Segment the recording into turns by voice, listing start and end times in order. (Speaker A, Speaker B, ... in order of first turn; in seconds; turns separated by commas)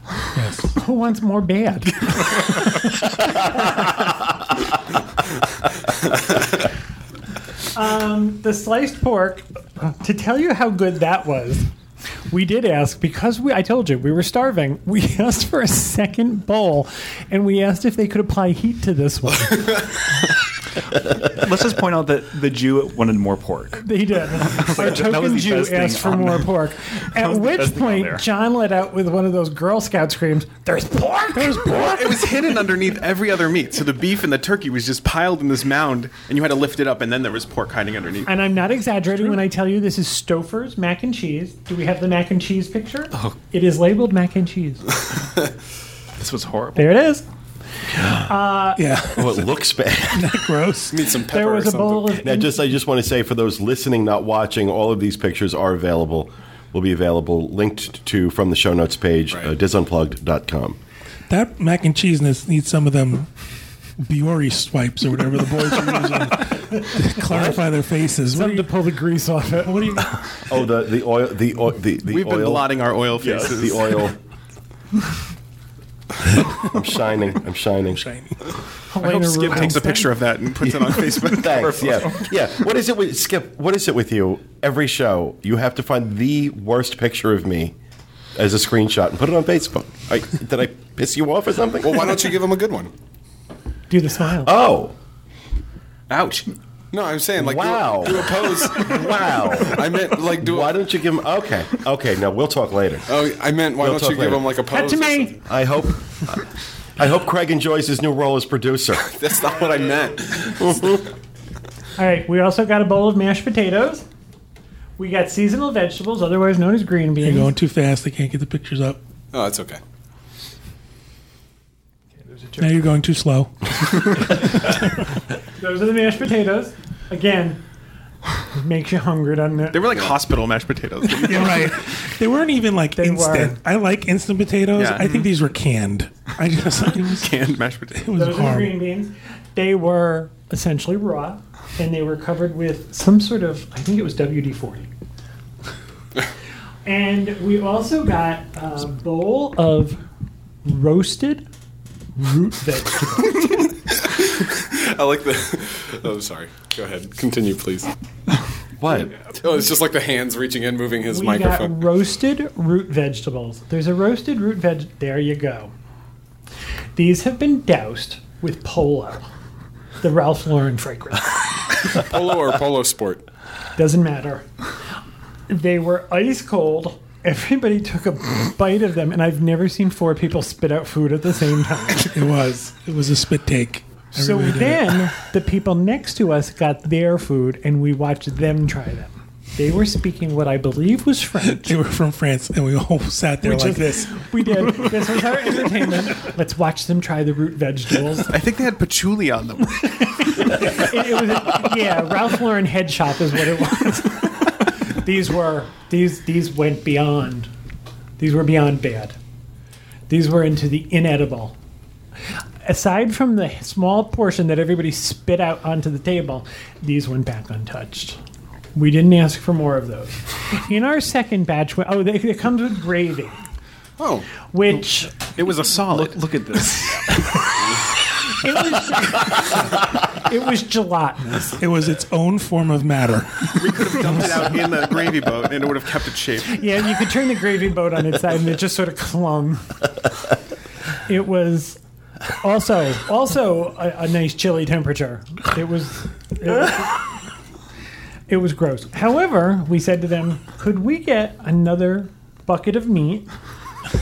Speaker A: 0.3-0.7, Speaker B: 0.8-2.4, Speaker B: 7.7-11.7, Speaker B: 12.3-19.8, Speaker C: 21.1-23.9, Speaker B: 23.8-31.8, Speaker C: 24.4-28.2, Speaker A: 31.3-32.4, Speaker D: 31.7-38.3, Speaker B: 38.2-44.9, Speaker C: 46.2-46.9, Speaker B: 46.8-47.2, Speaker B: 48.0-48.8, Speaker A: 48.8-49.5, Speaker E: 49.1-50.4, Speaker A: 50.1-51.1, Speaker F: 50.9-52.2, Speaker B: 51.3-52.5, Speaker E: 52.2-60.8, Speaker A: 61.3-63.3, Speaker A: 64.0-68.7, Speaker E: 67.3-67.6, Speaker B: 68.3-70.0, Speaker A: 69.7-70.4, Speaker E: 70.5-72.8, Speaker D: 72.1-74.0, Speaker C: 73.2-73.7, Speaker E: 73.4-74.2, Speaker E: 76.6-78.0, Speaker A: 77.9-78.3, Speaker B: 78.9-80.1, Speaker D: 79.0-82.3, Speaker E: 81.3-87.7, Speaker C: 81.6-82.2, Speaker E: 88.3-92.3, Speaker F: 91.8-92.9, Speaker B: 93.9-94.5, Speaker E: 94.4-94.9, Speaker D: 96.1-96.5, Speaker F: 96.9-100.8, Speaker E: 97.4-103.1, Speaker F: 103.1-105.4, Speaker E: 103.8-104.5, Speaker B: 104.7-105.3, Speaker E: 105.4-106.4, Speaker E: 107.0-109.1, Speaker F: 109.0-111.0, Speaker E: 110.6-111.0, Speaker B: 112.0-114.0, Speaker B: 115.0-117.5, Speaker A: 117.2-119.0, Speaker F: 119.3-119.8, Speaker B: 122.2-122.7, Speaker A: 122.6-124.8, Speaker B: 125.6-127.6, Speaker B: 128.5-130.0, Speaker D: 129.7-131.8, Speaker A: 131.2-137.4, Speaker B: 132.9-133.6, Speaker D: 134.7-135.2, Speaker D: 136.9-138.1, Speaker A: 137.9-138.8, Speaker B: 138.1-144.9, Speaker B: 146.8-150.0, Speaker B: 150.6-151.4, Speaker B: 152.2-153.6, Speaker F: 153.7-157.9, Speaker E: 158.8-159.1, Speaker F: 159.3-161.8, Speaker B: 161.1-165.7, Speaker B: 166.9-169.2, Speaker B: 170.0-171.4, Speaker F: 171.9-173.3, Speaker B: 173.8-174.4, Speaker B: 175.5-182.1, Speaker A: 182.1-185.1, Speaker B: 184.1-191.8, Speaker A: 191.4-194.9, Speaker B: 193.4-198.3, Speaker D: 198.3-200.8, Speaker B: 200.4-207.5, Speaker B: 208.2-209.2, Speaker B: 210.1-211.6, Speaker B: 212.6-218.2, Speaker B: 218.7-223.4, Speaker F: 224.0-224.3, Speaker B: 224.5-225.2, Speaker D: 225.3-226.2, Speaker C: 225.8-227.2, Speaker B: 227.1-227.6, Speaker B: 228.2-231.6, Speaker A: 231.6-234.5, Speaker D: 233.6-236.6, Speaker B: 236.5-239.8, Speaker B: 241.1-241.8, Speaker B: 242.4-247.1, Speaker B: 248.3-253.3